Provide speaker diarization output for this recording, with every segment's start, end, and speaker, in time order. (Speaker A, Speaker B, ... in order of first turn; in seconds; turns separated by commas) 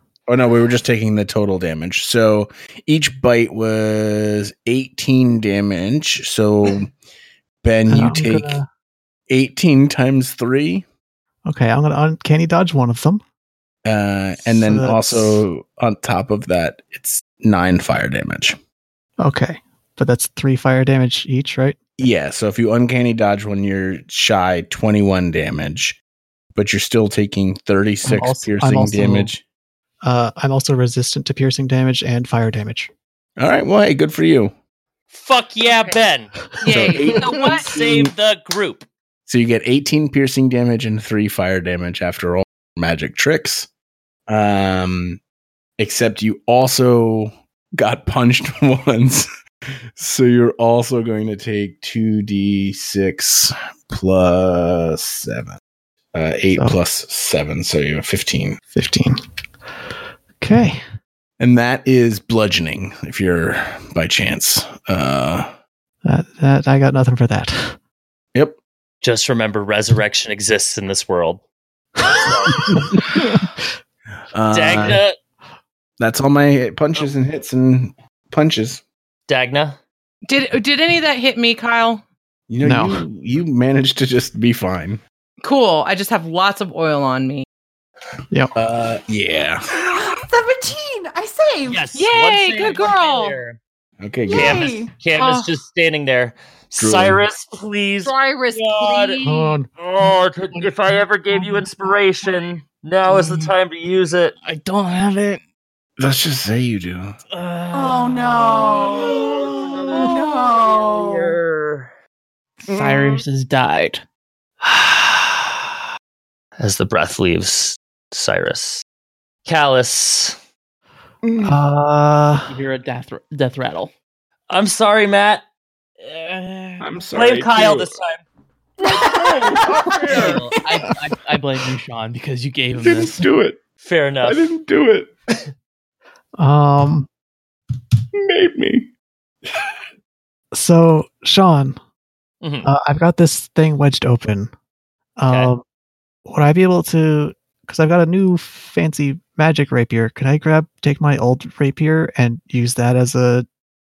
Speaker A: 0.3-6.9, Speaker A: 7.6-8.6, Speaker B: 7.9-8.7, Speaker A: 9.3-10.9, Speaker B: 11.5-13.2, Speaker A: 13.8-18.6, Speaker B: 14.4-15.4, Speaker B: 19.2-21.8, Speaker A: 22.0-26.0, Speaker A: 26.5-29.4, Speaker B: 28.1-29.3, Speaker B: 30.0-32.9, Speaker A: 33.4-34.5, Speaker C: 35.1-36.4, Speaker D: 35.6-36.0, Speaker D: 36.6-37.7, Speaker A: 36.7-38.1, Speaker C: 37.6-38.9, Speaker A: 39.3-43.7, Speaker A: 44.3-45.2, Speaker A: 45.8-49.3, Speaker A: 50.0-55.6, Speaker A: 56.1-58.6, Speaker B: 58.7-59.2, Speaker B: 60.4-60.8, Speaker A: 61.4-65.5, Speaker B: 66.0-67.8, Speaker C: 69.0-71.4, Speaker C: 72.0-72.8, Speaker B: 72.8-73.4, Speaker A: 74.3-75.0, Speaker C: 74.5-75.2, Speaker A: 76.0-78.8, Speaker C: 79.3-79.8, Speaker D: 80.3-82.0, Speaker A: 82.5-85.0, Speaker B: 82.6-83.0, Speaker D: 85.4-87.5, Speaker A: 88.5-89.6, Speaker E: 89.8-92.0, Speaker C: 91.7-93.6, Speaker D: 92.0-93.4, Speaker A: 94.0-94.6, Speaker E: 94.3-94.9, Speaker C: 94.3-99.2, Speaker D: 95.2-95.5, Speaker A: 96.8-97.2, Speaker D: 98.0-99.6, Speaker B: 99.2-99.7, Speaker C: 99.8-104.3, Speaker F: 104.4-105.4, Speaker A: 106.0-107.2, Speaker C: 107.3-111.9, Speaker E: 107.7-109.2, Speaker E: 110.0-111.4, Speaker F: 112.6-114.0, Speaker C: 114.6-115.6, Speaker C: 116.6-118.8, Speaker C: 119.5-120.4, Speaker B: 121.4-122.5, Speaker F: 122.5-123.9, Speaker C: 124.5-125.4, Speaker C: 126.0-128.2, Speaker A: 126.8-127.9, Speaker A: 128.8-130.5, Speaker C: 130.0-130.6, Speaker F: 130.1-133.2, Speaker A: 132.7-133.6, Speaker C: 133.8-134.5, Speaker A: 134.2-135.4, Speaker B: 136.4-137.1, Speaker A: 138.1-138.9, Speaker B: 140.5-141.8, Speaker C: 142.4-142.7, Speaker B: 142.6-144.5, Speaker B: 145.2-145.6, Speaker B: 146.3-153.5